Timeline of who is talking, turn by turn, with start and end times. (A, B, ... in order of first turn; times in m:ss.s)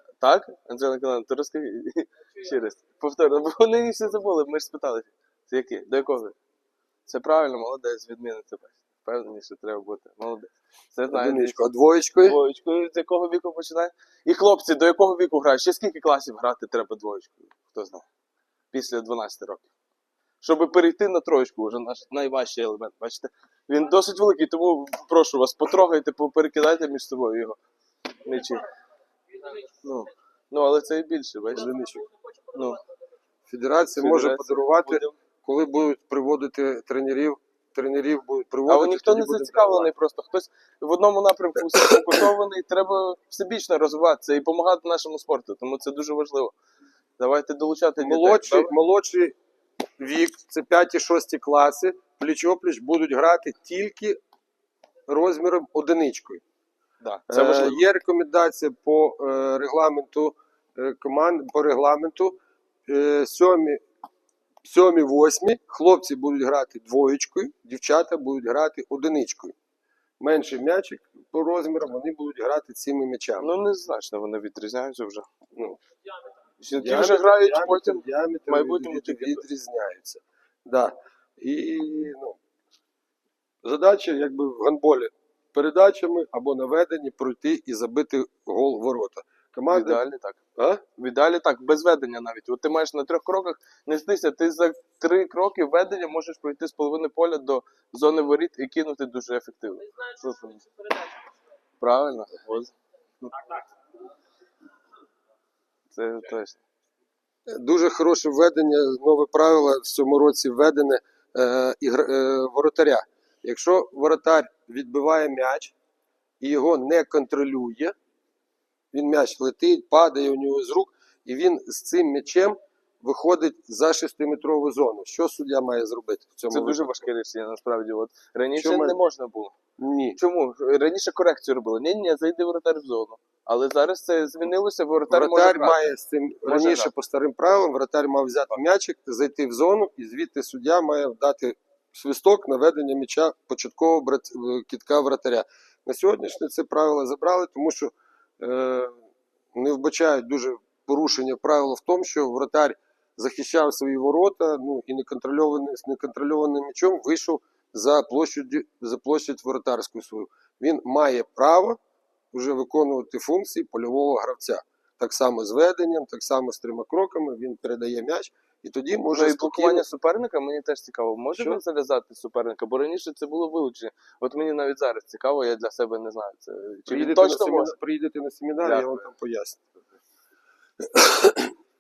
0:00.2-0:06.4 A
0:07.1-0:11.6 A
0:11.1-0:12.4 B
0:12.2-0:18.0 A
0:18.7-0:19.7 A
0:20.4-0:27.6 A
0:28.2-0:28.7 A
0:29.3-0:29.8 C
0:29.8-0:31.7 A
0:31.6-0:32.0 B
0:31.6-0:32.8 C
0:32.5-0:32.8 A
0:33.5-0:39.9 B
0:34.0-0:35.2 A
0:38.7-0:46.5 A
0:41.6-0:42.2 B
0:47.2-0:48.7 A
0:48.0-0:49.4 B
0:50.0-0:54.2 B
0:55.1-0:56.4 B
0:57.0-0:57.8 A
0:57.3-1:03.8 B
1:04.6-1:09.6 B
1:10.2-1:13.5 B
1:13.4-1:15.3 A
1:15.5-1:15.8 B
1:16.6-1:19.4 A
1:16.7-1:22.4 B
1:23.6-1:30.0 B
1:29.7-1:30.4 A
1:30.6-1:30.8 B
1:31.0-1:40.6 A
1:40.2-1:41.4 C
1:41.8-1:43.3 A
1:45.9-1:46.6 A
1:47.5-1:55.7 B
1:56.4-1:57.9 B
1:58.9-2:07.1 B
2:06.5-2:09.6 A
2:08.6-2:09.0 B
2:09.8-2:10.2 B
2:10.2-2:15.8 A
2:15.1-2:29.0 B
2:16.4-2:16.9 A
2:29.5-2:41.8 B
2:42.3-2:49.8 B
2:49.1-2:57.7 A
2:51.3-2:51.6 B
2:56.9-2:59.7 B
2:58.6-2:59.0 A
3:00.8-3:01.5 B